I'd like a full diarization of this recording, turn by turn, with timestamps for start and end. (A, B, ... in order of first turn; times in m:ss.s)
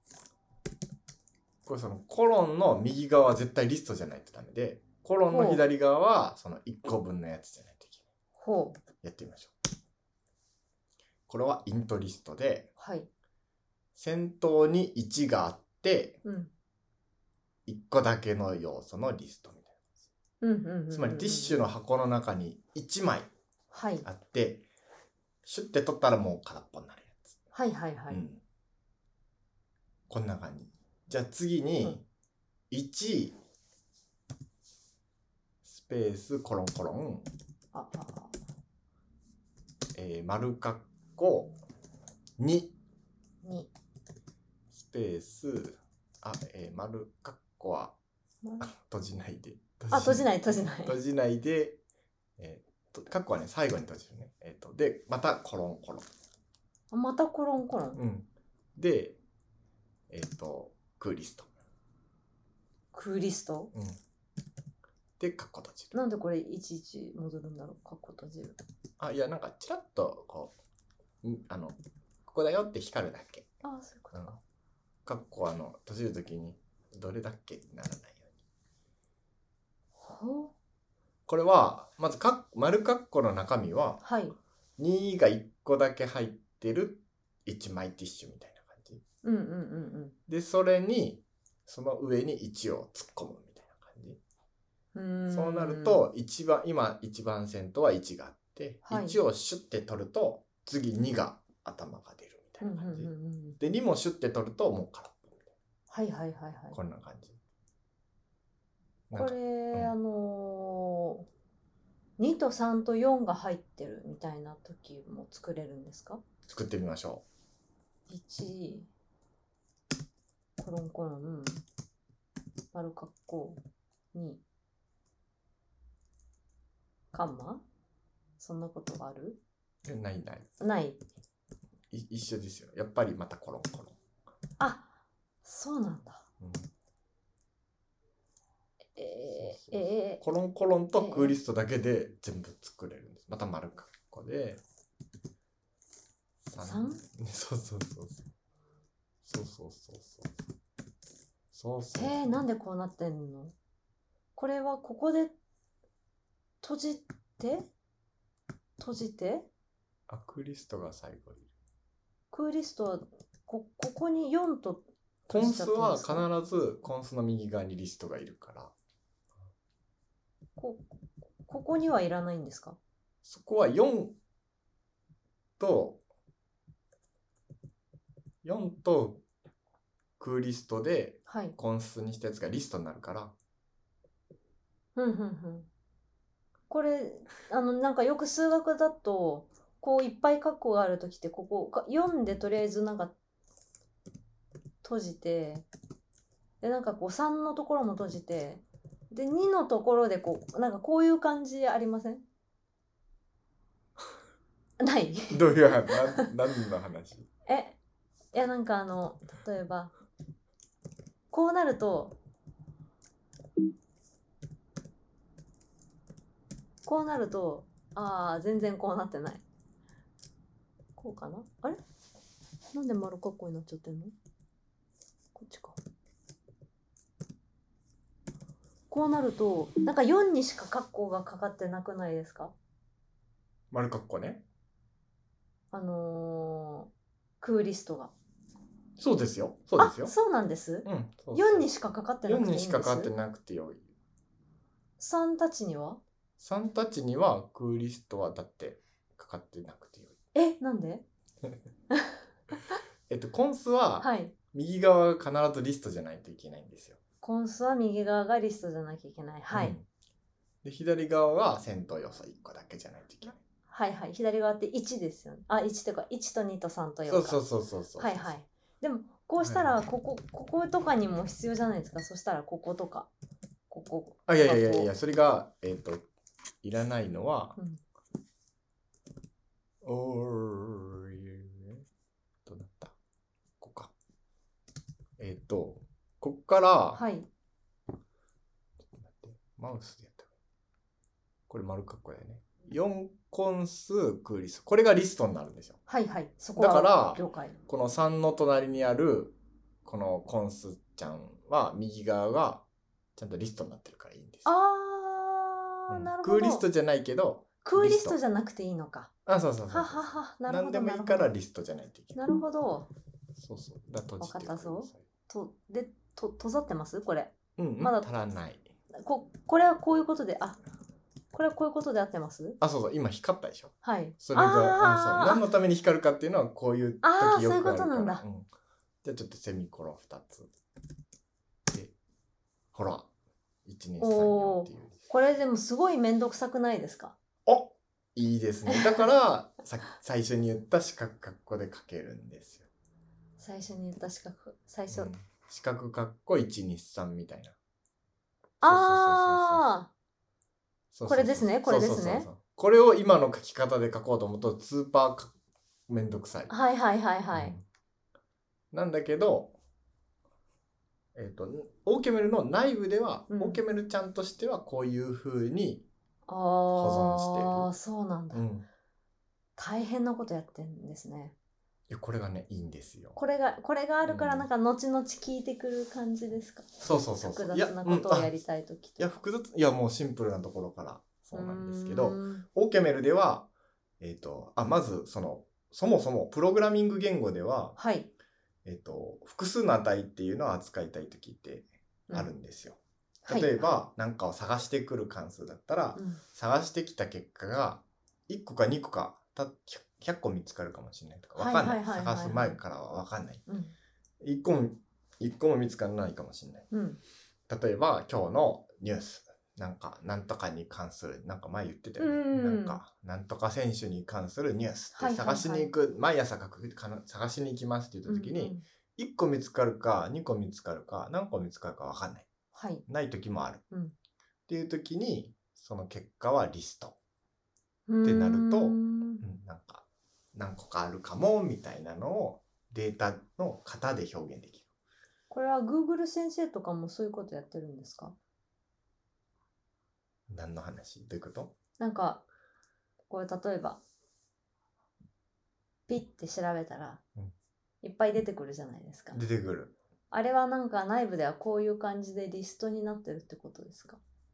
0:01.6-0:08.0 A
0:05.3-0:05.6 B
0:08.4-0:08.8 B
0:09.0-0:09.5 A
0:11.3-0:12.7 A
0:12.8-0:13.1 B
0:14.0-0:16.2 A
0:16.2-0:16.5 B
0:17.7-0:19.9 A
0:20.4-0:21.6 B
0:20.9-0:23.3 A
0:23.7-0:24.1 B
0:24.0-0:24.7 A
0:25.4-0:27.4 A
0:27.5-0:28.2 B
0:28.1-0:28.4 A
0:30.1-0:32.0 A
0:32.7-0:33.4 A
0:35.6-0:37.3 A
0:37.7-0:38.3 B
0:39.9-0:41.6 A
0:42.4-0:42.8 A
0:43.4-0:43.7 B
0:44.7-0:48.0 A
0:48.4-0:48.7 B
0:48.6-0:51.8 A
0:49.9-0:51.0 B
0:52.4-0:56.1 A
0:56.9-0:58.0 B
0:58.0-0:59.2 A
1:00.1-1:01.5 A
1:02.9-1:03.7 B
1:03.7-1:04.0 A
1:05.2-1:06.0 A
1:05.9-1:08.6 B
1:09.0-1:10.5 A
1:11.2-1:13.5 A
1:13.6-1:14.4 B
1:14.1-1:14.4 A
1:15.0-1:18.3 A
1:20.0-1:20.5 B
1:21.3-1:24.0 A
1:24.0-1:24.4 B
1:24.8-1:29.0 A
1:29.2-1:30.2 B
1:30.3-1:34.2 A
1:34.9-1:36.1 B
1:35.3-1:45.5 A
1:38.9-1:39.2 B
1:42.6-1:43.6 B
1:45.9-1:46.8 B
1:46.7-1:47.4 A
1:49.1-1:49.9 A
1:49.1-1:51.3 B
1:52.2-1:56.2 B
1:56.5-1:57.2 A
1:58.1-1:58.9 B
2:00.6-2:01.6 B
2:02.7-2:03.6 B
2:04.1-2:04.4 B
2:07.1-2:07.6 B
2:08.4-2:09.4 B
2:09.8-2:10.5 A
2:10.6-2:11.0 B
2:11.9-2:14.0 A
2:14.6-2:14.9 B
2:15.4-2:16.2 B
2:16.4-2:16.7 A
2:19.0-2:20.2 B
2:19.3-2:24.6 A
2:21.0-2:21.4 B
2:26.4-2:28.3 A
2:26.6-2:27.0 B
2:29.2-2:30.4 A
2:31.5-2:32.4 A
2:32.0-2:33.5 B
2:34.4-2:35.4 B
2:36.6-2:37.7 B
2:38.8-2:39.5 B
2:40.1-2:41.5 A
2:42.3-2:46.3 B
2:45.3-2:48.7 A
2:50.6-2:50.9 B
2:51.5-2:52.8 B
2:53.2-2:54.2 A
2:55.6-2:56.0 A
2:58.4-2:59.2 A
3:00.2-3:03.4 A
3:01.3-3:01.6 B
3:05.0-3:05.7 B
3:06.7-3:13.1 B
3:14.8-3:15.7 B
3:16.6-3:22.2 B
3:24.8-3:26.3 B
3:25.3-3:27.3 A
3:27.5-3:27.8 B
3:28.3-3:29.9 B
3:31.3-3:32.2 B
3:36.8-3:39.4 B
3:41.0-3:41.8 B
3:42.7-3:44.2 B
3:45.4-3:45.8 B
3:48.9-3:52.5 B
3:53.7-3:54.4 A
3:55.7-3:56.9 B
3:57.4-3:58.1 B
3:59.0-4:00.2 A
3:59.8-4:03.1 B
4:00.8-4:01.7 A
4:02.2-4:03.9 A
4:05.0-4:06.0 B
4:06.4-4:10.2 A
4:10.3-4:11.0 B
4:13.1-4:17.0 A
4:14.0-4:14.3 B
4:17.2-4:19.8 B
4:19.5-4:19.9 A
4:20.6-4:23.4 A
4:23.7-4:27.4 B
4:27.1-4:28.3 A
4:28.0-4:33.1 B
4:29.4-4:29.8 A
4:33.7-4:34.9 B
4:34.3-4:36.0 A
4:36.6-4:37.6 A
4:39.8-4:41.8 A
4:42.5-4:43.0 A
4:43.6-4:43.9 A
4:45.2-4:47.0 A
4:46.9-4:47.3 B
4:48.9-4:50.3 A
4:51.5-4:55.8 A
4:55.9-4:57.6 B
4:56.6-5:02.6 A
5:03.2-5:04.5 A
5:04.4-5:06.6 B
5:05.9-5:08.2 A
5:07.6-5:09.1 B
5:09.3-5:12.2 A
5:09.7-5:11.3 B
5:12.2-5:12.9 B
5:13.4-5:15.1 A
5:14.2-5:18.1 B
5:17.6-5:18.7 A
5:19.0-5:20.6 B
5:21.3-5:22.6 B
5:22.6-5:28.5 A
5:23.8-5:25.5 B
5:27.0-5:28.2 B
5:29.0-5:30.5 A
5:31.7-5:32.0 A
5:32.7-5:33.1 A
5:33.6-5:35.0 A
5:34.0-5:37.2 B
5:37.5-5:42.7 A
5:38.7-5:39.0 B
5:43.4-5:45.1 B
5:44.9-5:47.6 A
5:48.6-5:49.9 B
5:48.6-5:49.7 A
5:50.9-5:55.3 A
5:51.1-5:52.3 B
5:55.9-5:56.5 A
5:56.5-5:57.6 B
5:57.3-5:57.6 A
5:58.7-5:59.6 A
6:01.2-6:05.9 A
6:03.3-6:03.6 B
6:06.3-6:08.5 B
6:06.7-6:07.7 A
6:08.3-6:08.7 A
6:09.6-6:11.4 B
6:11.9-6:13.2 A
6:13.2-6:19.0 B
6:14.0-6:14.5 A
6:16.8-6:18.3 A
6:19.0-6:23.5 A
6:21.3-6:22.4 B
6:24.0-6:27.8 A
6:27.8-6:28.1 B
6:28.6-6:43.4 A
6:33.3-6:33.8 B
6:36.0-6:36.2 B
6:41.4-6:42.6 B
6:43.5-6:43.8 B
6:44.2-6:46.7 A
6:46.7-6:47.0 B
6:47.5-7:02.3 A
6:52.0-6:52.8 B
6:55.0-6:55.7 B
6:58.1-6:58.6 B
7:02.5-7:02.8 B
7:02.9-7:03.6 A
7:04.5-7:07.0 A
7:07.9-7:09.2 B
7:08.0-7:14.7 A
7:15.3-7:18.2 B
7:20.3-7:21.5 A
7:21.8-7:22.2 B
7:23.1-7:23.8 B
7:25.9-7:27.0 B
7:27.8-7:29.2 B
7:29.1-7:29.8 A
7:30.1-7:34.0 B